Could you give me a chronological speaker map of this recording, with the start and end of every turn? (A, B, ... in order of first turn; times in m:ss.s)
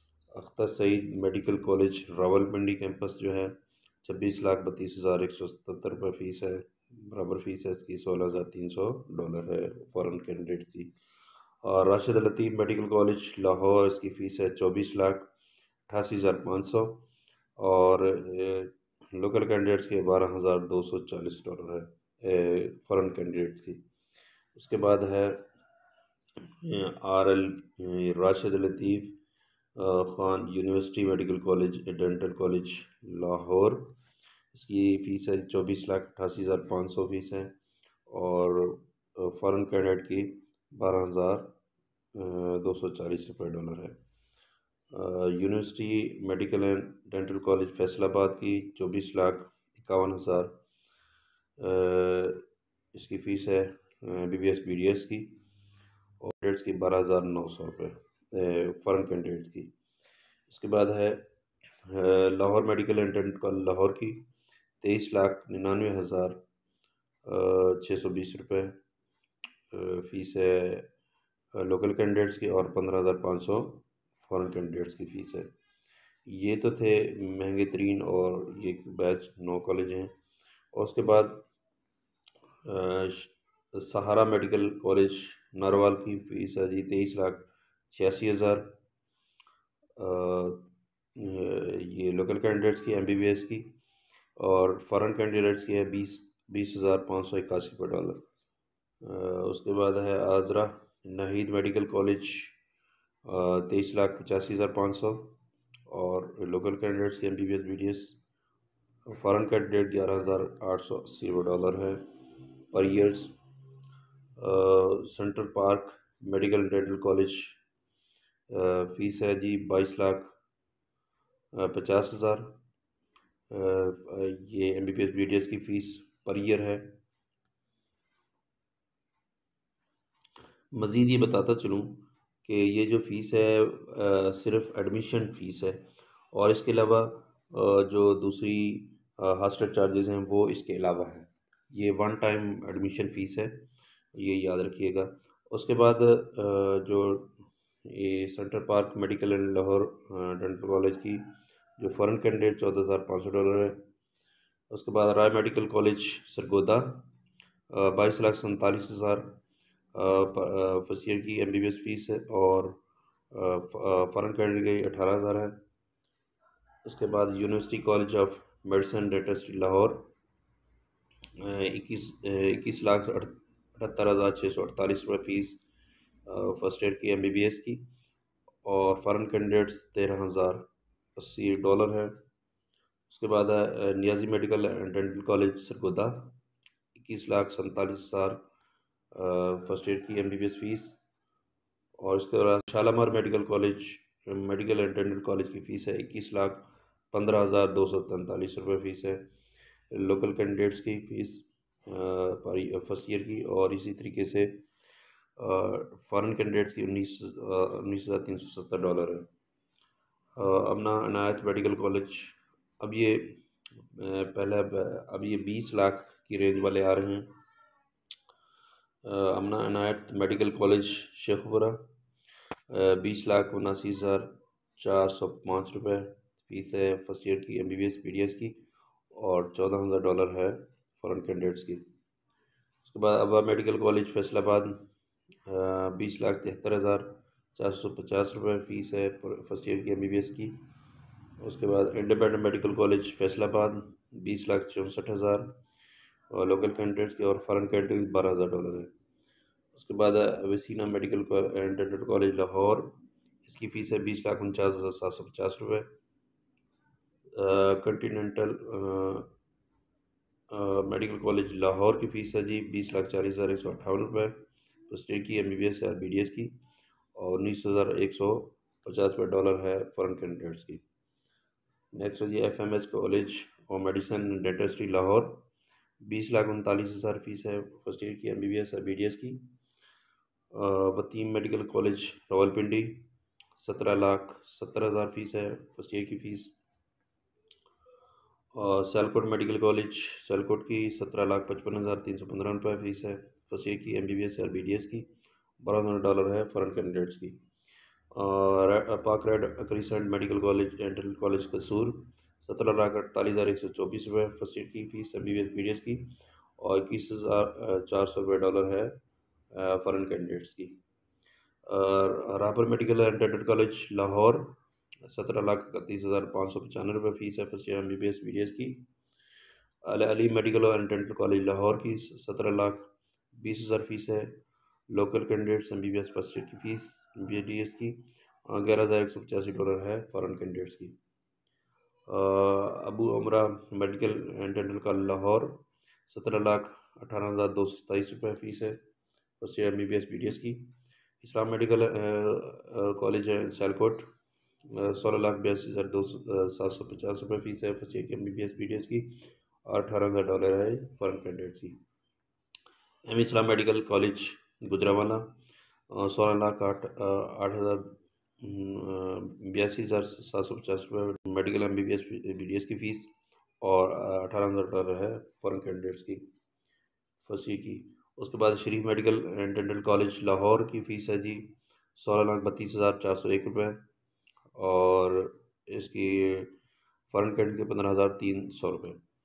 0:00.3-0:10.9 A
0:11.6-0:15.3 A
0:15.9-0:17.0 A
0:17.6-0:23.8 A
0:24.5-0:25.5 A
0:26.6-0:29.2 A
0:29.8-0:34.0 A
0:34.5-0:37.5 A
0:38.1-0:41.5 A
0:42.1-0:44.0 A
0:44.9-0:50.6 A
0:51.6-0:55.4 A
0:56.2-0:59.7 A
1:00.5-1:01.2 A
1:01.8-1:04.3 A
1:04.8-1:06.4 A
1:07.2-1:08.8 A
1:09.7-1:10.9 A
1:11.5-1:15.5 A
1:16.2-1:20.1 A
1:20.7-1:21.5 A
1:22.6-1:28.8 A
1:30.0-1:33.7 A
1:34.4-1:38.2 A
1:39.0-1:42.6 A
1:43.2-1:45.3 A
1:45.9-1:48.2 A
1:49.0-1:52.0 A
1:52.7-1:53.3 A
1:54.4-1:57.6 A
1:58.5-2:00.3 A
2:01.5-2:02.6 A
2:03.5-2:07.0 A
2:10.7-2:33.9 A
2:34.7-2:37.1 A
2:37.7-2:39.4 A
2:39.9-2:45.6 A
2:46.8-2:50.1 A
2:51.4-2:55.6 A
2:56.2-2:57.8 A
2:58.6-3:02.2 A
3:03.1-3:06.4 A
3:06.9-3:08.4 A
3:09.1-3:11.0 A
3:12.0-3:19.3 A
3:19.9-3:24.6 A
3:25.4-3:29.3 A
3:30.4-3:37.3 A
3:39.0-3:41.8 A
3:42.7-3:51.8 A
3:52.8-3:54.9 A
3:55.4-4:00.6 A
4:01.4-4:05.6 A
4:06.3-4:08.9 A
4:09.7-4:15.9 A
4:17.3-4:19.3 A
4:20.5-4:26.6 A
4:27.1-4:30.8 A
4:31.9-4:35.5 A
4:36.0-4:39.4 A
4:40.5-4:46.6 A
4:48.5-4:57.4 A
4:58.1-5:09.0 A
5:09.5-5:10.8 A
5:11.7-5:18.8 A
5:19.8-5:24.4 A
5:24.9-5:31.0 A
5:32.1-5:38.8 A
5:39.4-5:44.1 A
5:44.7-5:51.8 A
5:53.0-5:55.4 A
5:55.9-6:06.2 A
6:07.2-6:13.8 A
6:14.6-6:16.5 A
6:17.1-6:19.0 A